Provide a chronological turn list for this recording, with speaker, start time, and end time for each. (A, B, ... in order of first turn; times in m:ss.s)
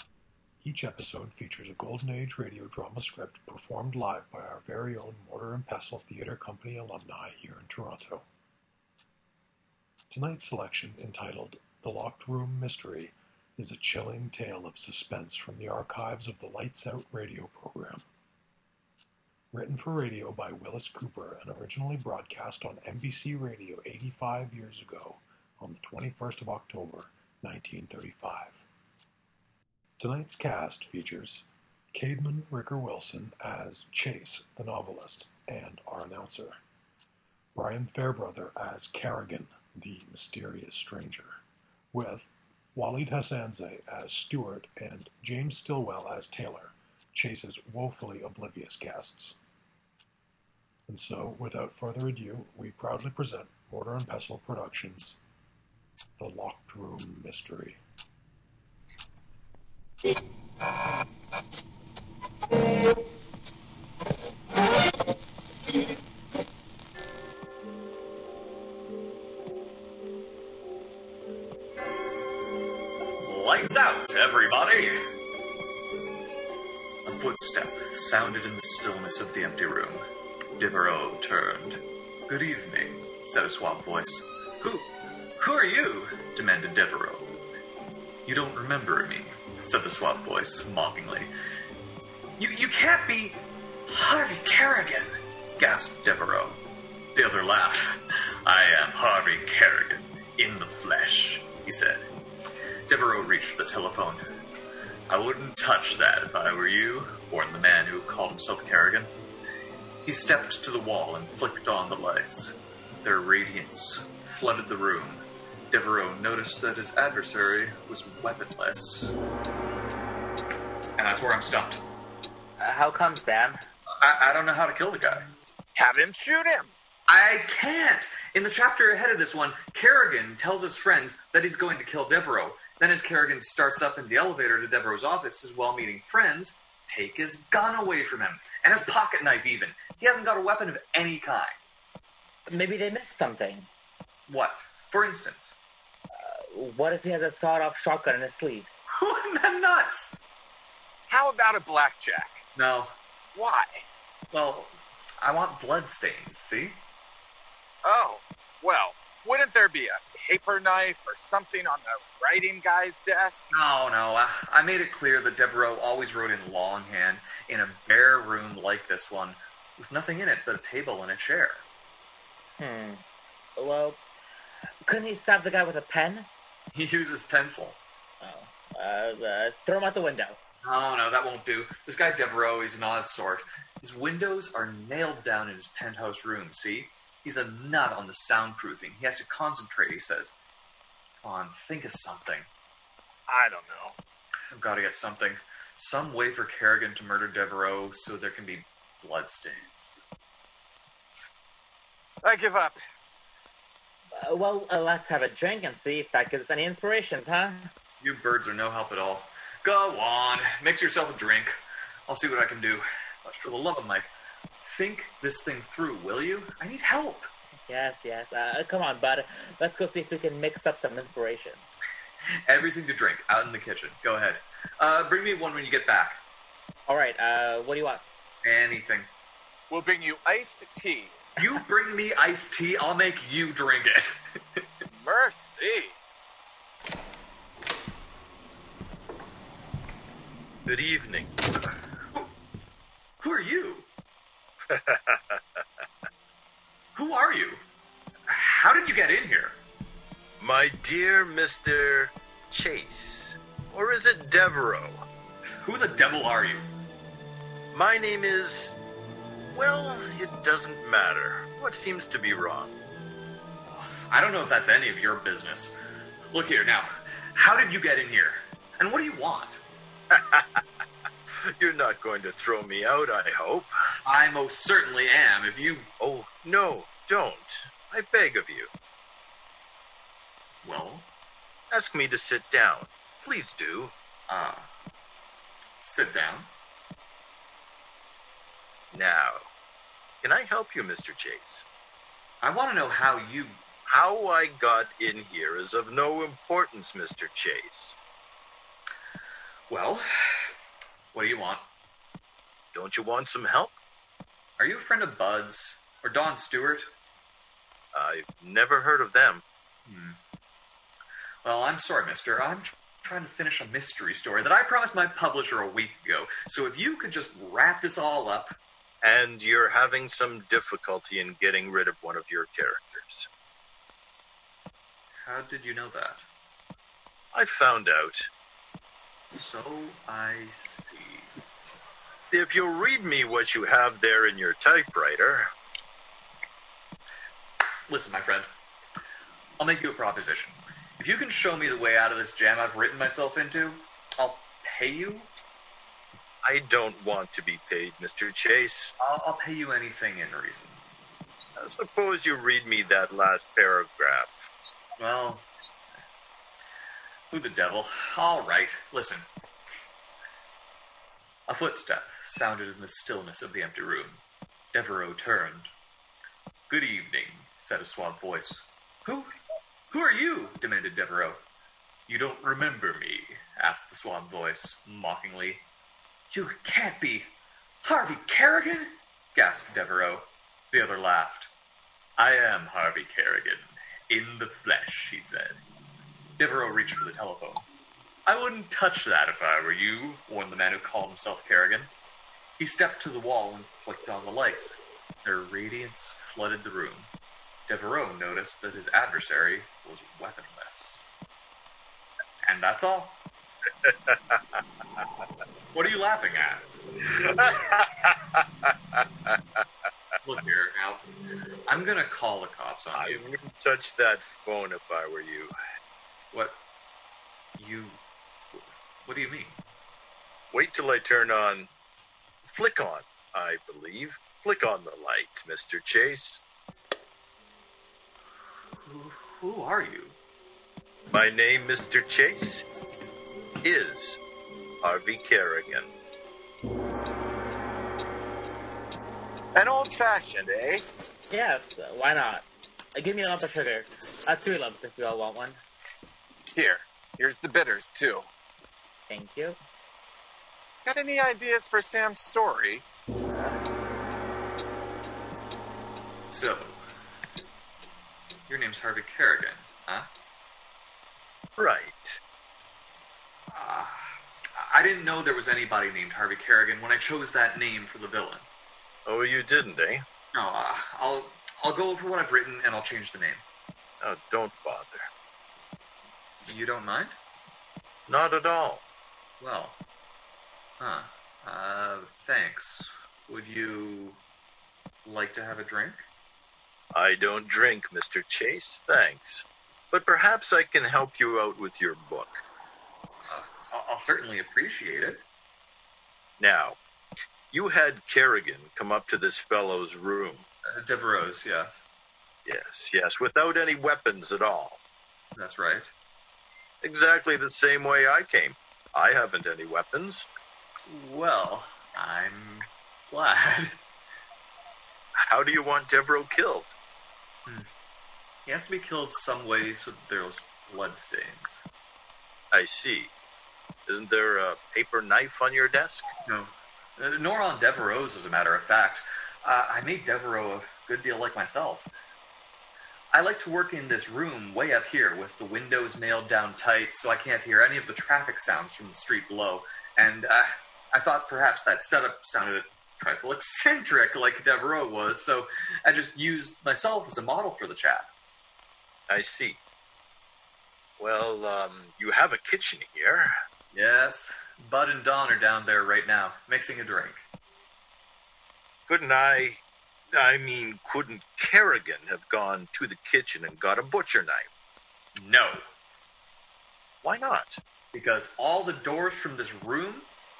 0:00.6-0:08.2 A
0:10.1-0:18.0 A
0:19.5-0:28.6 A
0:30.0-0:36.6 A
0:37.5-0:41.4 A
0:41.9-0:49.4 A
0:50.9-0:55.2 A
0:56.2-0:57.8 A
1:13.2-1:15.0 B
1:17.0-1:20.0 B
1:20.6-1:24.9 B
1:25.4-1:27.3 B
1:28.2-1:31.3 B
1:32.4-1:36.6 B
1:37.1-1:42.0 B
1:42.9-1:44.2 B
1:45.1-1:49.1 B
1:50.0-1:59.1 B
2:01.0-2:01.8 B
2:02.6-2:03.6 C
2:04.0-2:05.3 B
2:05.8-2:06.7 D
2:07.1-2:21.5 B
2:22.5-2:23.7 C
2:24.3-2:25.5 B
2:26.1-2:28.8 C
2:28.9-2:30.2 B
2:31.1-2:32.4 D
2:32.6-2:32.9 B
2:33.3-2:33.7 D
2:34.3-2:36.8 B
2:37.8-2:43.5 D
2:43.5-2:51.6 B
2:52.6-2:53.0 C
2:53.6-2:54.0 C
2:54.8-2:56.3 C
2:56.7-2:57.8 B
2:58.2-3:00.4 C
3:00.6-3:10.3 B
3:11.2-3:12.5 B
3:13.3-3:14.0 D
3:14.5-3:20.0 B
3:22.2-3:22.8 D
3:24.2-3:27.7 C
3:28.0-3:31.5 B
3:32.1-3:34.1 B
3:34.6-3:37.3 B
3:37.7-3:41.6 C
3:42.5-3:46.2 B
3:46.9-3:48.0 C
3:48.4-3:49.1 B
3:49.7-3:51.2 D
3:51.4-3:54.6 B
3:54.9-3:56.0 D
4:00.7-4:01.3 E
4:03.2-4:03.9 B
4:04.7-4:05.6 E
4:06.9-4:07.6 B
4:08.3-4:09.6 B
4:10.4-4:15.0 E
4:15.6-4:16.6 B
4:17.7-4:18.8 E
4:19.5-4:22.7 E
4:23.7-4:25.7 B
4:26.3-4:29.6 B
4:30.1-4:30.6 E
4:31.6-4:33.7 E
4:34.0-4:35.9 B
4:36.0-4:38.7 E
4:40.6-4:41.1 B
4:41.7-4:43.9 E
4:44.3-4:44.7 B
4:45.8-4:46.5 B
4:48.9-4:49.4 E
4:50.2-4:51.6 E
4:52.4-4:53.6 B
4:53.9-4:58.0 E
4:59.7-5:00.5 B
5:01.1-5:01.6 B
5:02.7-5:03.8 E
5:04.6-5:06.9 B
5:07.9-5:09.4 E
5:09.9-5:10.2 B
5:11.4-5:18.5 B
5:19.0-5:23.3 E
5:25.2-5:26.2 B
5:27.3-5:28.3 E
5:29.3-5:31.3 B
5:32.3-5:35.5 E
5:37.9-5:38.5 B
5:39.6-5:45.3 B
5:46.5-5:48.9 E
5:49.0-5:50.8 B
5:51.6-5:54.5 E
5:55.0-5:55.5 B
5:57.3-5:59.2 B
6:01.5-6:04.2 B
6:04.7-6:05.7 B
6:06.7-6:09.3 B
6:09.9-6:11.4 B
6:12.1-6:15.6 B
6:16.3-6:21.5 B
6:22.2-6:25.6 B
6:26.4-6:27.6 B
6:28.2-6:31.9 B
6:32.6-6:37.1 B
6:37.7-6:41.1 B
6:42.4-6:43.2 B
6:43.9-6:44.6 E
6:45.7-6:46.6 B
6:47.2-6:48.4 E
6:49.0-6:49.4 E
6:50.2-6:51.1 B
6:51.7-6:53.2 B
6:53.0-6:55.5 E
6:56.3-6:56.6 B
6:57.6-6:58.0 B
6:58.5-6:59.6 B
7:00.5-7:01.7 E
7:02.4-7:06.4 E
7:08.8-7:10.2 B
7:11.1-7:12.6 E
7:13.6-7:14.2 E
7:14.8-7:15.9 E
7:19.6-7:20.8 D
7:21.3-7:25.6 C
7:26.5-7:28.3 D
7:29.1-7:29.6 C
7:30.8-7:32.8 D
7:33.3-7:33.6 C
7:36.3-7:36.8 B
7:38.5-7:40.1 B
7:41.6-7:42.2 E
7:43.5-7:48.4 B
7:49.1-7:50.0 E
7:50.3-7:53.4 B
7:54.0-7:55.0 E
7:56.4-7:57.1 B
7:58.1-7:58.8 E
7:59.4-7:59.8 B
8:00.8-8:04.2 B
8:05.0-8:06.0 B
8:06.9-8:12.4 E
8:13.3-8:15.2 B
8:16.4-8:16.8 E
8:17.5-8:20.4 E
8:20.7-8:21.7 B
8:22.4-8:24.8 E
8:25.4-8:25.9 B
8:26.8-8:30.3 E
8:30.9-8:33.8 B
8:35.3-8:36.7 E
8:38.5-8:41.6 B
8:42.5-8:43.1 E
8:43.9-8:46.1 E
8:46.3-8:51.9 B
8:53.1-9:08.1 B
9:09.1-9:09.6 E
9:11.0-9:13.3 E
9:13.7-9:17.2 B
9:18.9-9:19.6 E
9:20.1-9:24.5 E
9:25.2-9:25.6 B
9:27.0-9:27.6 E
9:27.9-9:30.1 B